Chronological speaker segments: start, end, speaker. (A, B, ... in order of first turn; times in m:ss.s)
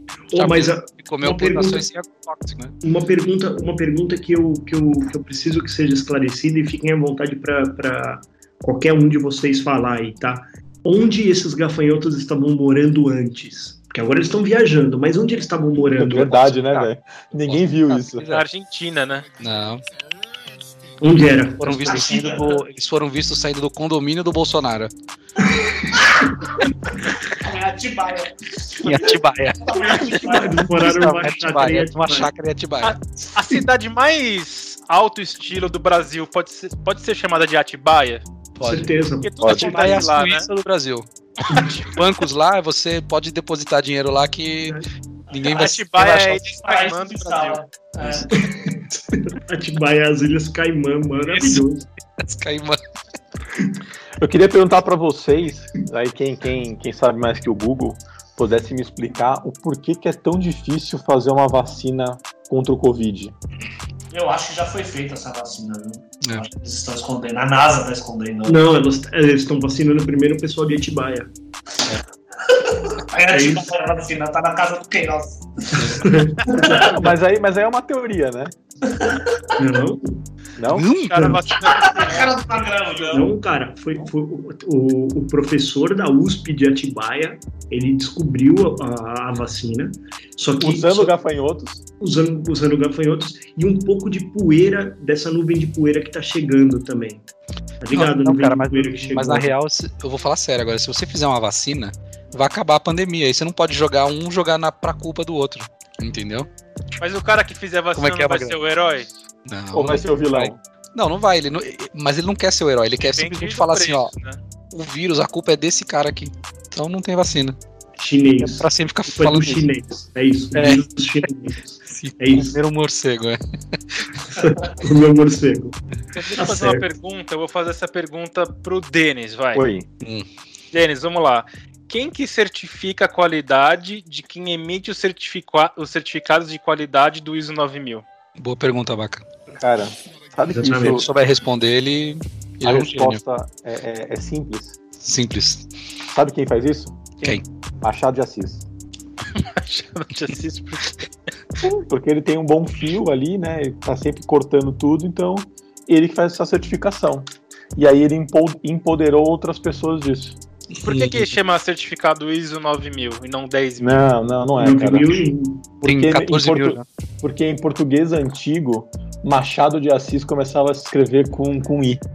0:00.3-0:01.9 A
0:00.4-0:02.7 B
0:02.8-0:16.5 A
0:16.0-0:18.3 C
0:16.1-0:18.5 B
0:18.3-0:19.3 D
0:19.4-0:19.8 B
0:21.0-0:22.1 A
0:21.6-0:24.9 B
0:21.8-0:22.6 E
0:26.0-0:26.3 A
0:27.3-0:30.5 E
0:28.8-0:33.0 B
0:29.9-0:32.3 A
0:32.8-0:38.2 D
0:38.6-0:38.9 B
0:38.6-0:40.1 A
0:39.2-0:40.5 D
0:39.4-0:39.8 C
0:39.4-0:41.1 B
0:41.5-0:41.7 A
0:41.5-0:42.0 D
0:41.8-0:46.6 B
0:45.3-0:45.6 E
0:45.4-0:47.6 D
0:46.6-0:48.4 E
0:48.0-0:51.9 A
0:51.3-0:51.6 B
0:52.2-0:52.8 B
0:54.2-1:03.3 C
1:04.1-1:08.6 E
1:08.5-1:11.3 A
1:12.5-1:16.9 E
1:13.3-1:13.7 A
1:15.8-1:16.0 B
1:15.8-1:17.1 A
1:16.7-1:18.5 C
1:18.9-1:19.5 E
1:19.6-1:20.2 A
1:20.6-1:20.9 C
1:20.7-1:21.4 B
1:20.9-1:22.4 D
1:21.1-1:21.4 A
1:21.6-1:23.3 E
1:23.1-1:31.1 A
1:30.6-1:31.8 C
1:32.0-1:37.2 A
1:37.8-1:39.5 A
1:37.9-1:46.5 B
1:47.0-1:49.1 D
1:48.0-1:48.6 B
1:49.4-1:54.1 B
1:49.7-1:50.6 C
1:53.1-1:54.4 D
1:54.7-1:57.6 B
1:58.0-2:02.6 A
1:58.4-1:59.7 B
2:00.6-2:00.8 B
2:01.9-2:03.4 B
2:04.2-2:05.8 A
2:06.1-2:09.7 D
2:06.3-2:06.9 A
2:09.5-2:09.9 C
2:10.0-2:10.3 B
2:10.7-2:18.0 D
2:18.4-2:19.2 B
2:19.5-2:21.1 C
2:20.5-2:21.0 A
2:20.9-2:23.2 B
2:22.6-2:24.8 C
2:25.0-2:25.7 B
2:26.1-2:27.3 C
2:27.8-2:28.6 C
2:29.3-2:31.1 D
2:31.6-2:40.4 C
2:40.7-2:41.4 B
2:40.8-2:44.1 D
2:43.8-2:45.2 C
2:44.6-2:45.7 A
2:45.8-2:52.0 C
2:45.8-2:46.8 B